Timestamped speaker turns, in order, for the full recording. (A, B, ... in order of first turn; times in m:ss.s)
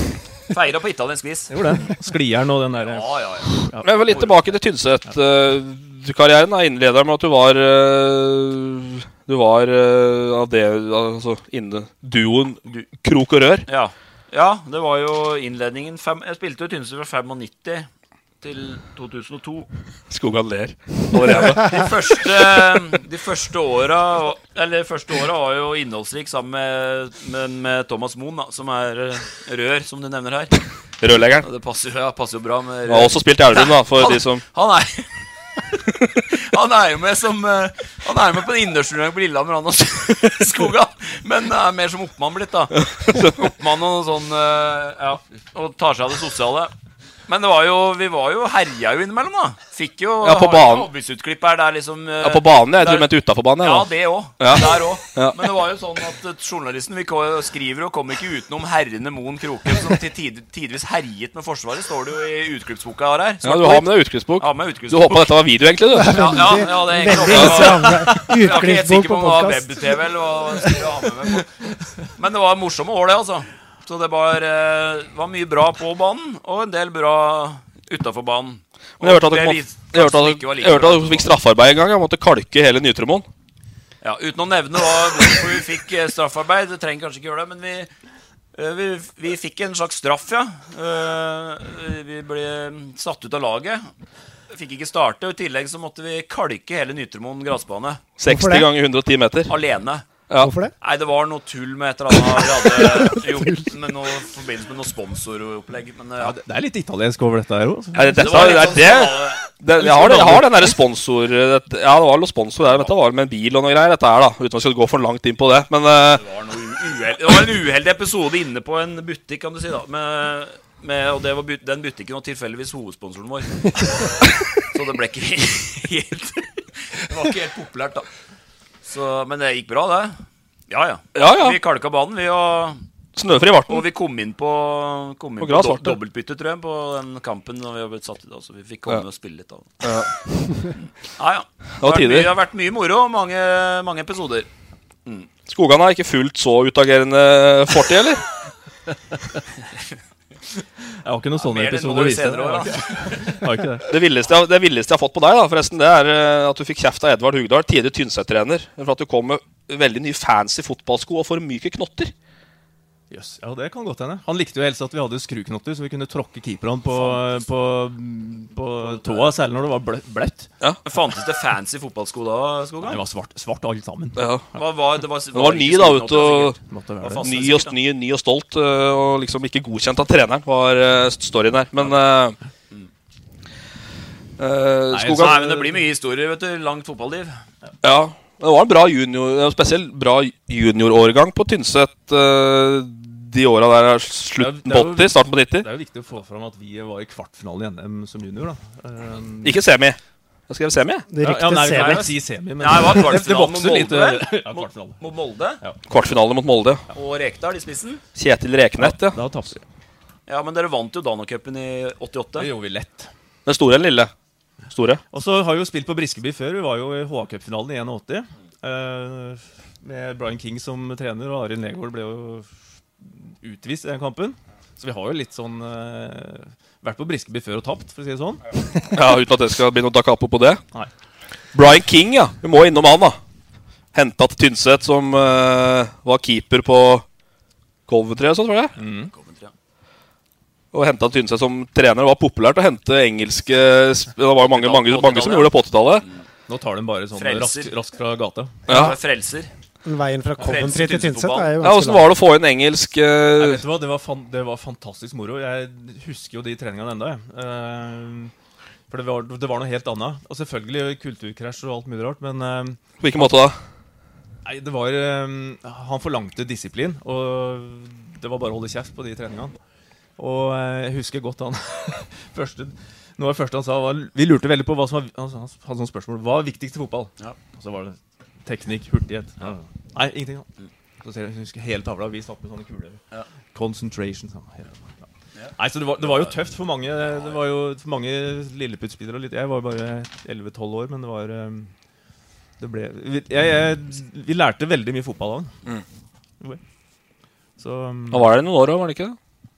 0:00.5-0:01.8 A
0:01.5-0:03.8 B
0:02.8-0:04.3 A
0:03.8-0:13.6 C
0:13.7-0:17.9 A
0:18.4-0:19.7 A
0:20.1-0:22.2 C
0:21.4-0:30.6 A
0:31.0-0:31.4 C
0:31.4-0:35.1 A
0:32.9-0:34.4 C
0:36.3-0:46.7 A
0:42.8-0:43.4 C
0:47.3-1:05.3 A
0:50.2-0:50.9 C
0:52.2-0:53.9 C
0:54.4-0:55.4 C
1:03.4-1:06.2 C
1:05.9-1:09.8 D
1:06.0-1:11.5 A
1:07.3-1:07.7 C
1:12.2-1:21.3 A
1:19.0-1:23.3 C
1:24.0-1:27.9 A
1:28.5-1:33.9 A
1:34.5-1:38.0 A
1:38.2-1:39.5 C
1:38.2-1:38.7 D
1:39.5-1:40.1 A
1:40.4-1:40.7 D
1:40.8-1:46.4 A
1:46.2-1:48.8 B
1:47.9-1:56.2 C
1:48.2-1:50.5 A
1:52.6-1:52.9 A
1:56.1-2:08.0 A
2:08.8-2:10.2 A
2:10.7-2:12.8 A
2:11.1-2:11.6 C
2:13.2-2:13.8 C
2:13.7-2:19.8 A
2:15.4-2:16.0 C
2:19.8-2:20.7 C
2:21.2-2:24.5 A
2:21.8-2:22.3 C
2:25.5-2:28.2 C
2:31.0-2:33.9 B
2:31.4-2:33.4 A
2:33.9-2:42.1 C
2:43.1-2:50.5 B
2:46.9-2:47.5 A
2:48.8-2:49.3 A
2:50.8-2:53.0 A
2:52.8-2:54.2 B
2:54.2-2:54.4 C
2:54.5-2:57.8 A
2:55.3-2:56.6 C
2:56.6-2:57.2 B
2:57.2-3:02.4 C
3:04.4-3:05.4 C
3:04.9-3:05.8 B
3:05.2-3:07.3 A
3:07.8-3:15.7 C
3:14.4-3:19.6 B
3:19.4-3:20.0 C
3:20.5-3:21.1 C
3:21.1-3:22.1 D
3:21.2-3:25.0 B
3:21.7-3:25.6 A
3:25.9-3:26.8 C
3:26.9-3:28.0 A
3:28.2-3:29.2 C
3:28.8-3:29.6 B
3:30.3-3:32.5 A
3:32.4-3:33.1 B
3:33.4-3:34.1 C
3:34.7-3:35.0 C
3:35.1-3:42.5 B
3:43.0-3:48.9 B
3:48.9-3:50.6 C
3:51.5-3:53.2 C
3:53.9-3:57.0 C
3:57.9-3:58.7 C
3:58.8-3:59.1 B
3:59.0-3:59.5 A
4:00.7-4:06.0 C
4:04.4-4:05.5 A
4:06.5-4:08.6 B
4:07.1-4:07.7 A
4:08.7-4:09.0 C
4:08.7-4:09.5 A
4:09.8-4:12.1 D
4:10.4-4:11.5 A
4:11.6-4:13.6 C
4:13.4-4:18.3 B
4:18.9-4:23.4 B
4:23.0-4:23.6 C
4:24.4-4:29.5 B
4:30.2-4:40.5 B
4:41.0-4:43.0 B
4:43.5-4:44.7 B
4:45.4-4:46.4 A
4:45.6-4:51.7 B
4:52.6-4:55.5 B
4:57.6-4:58.3 B
4:58.1-4:59.2 C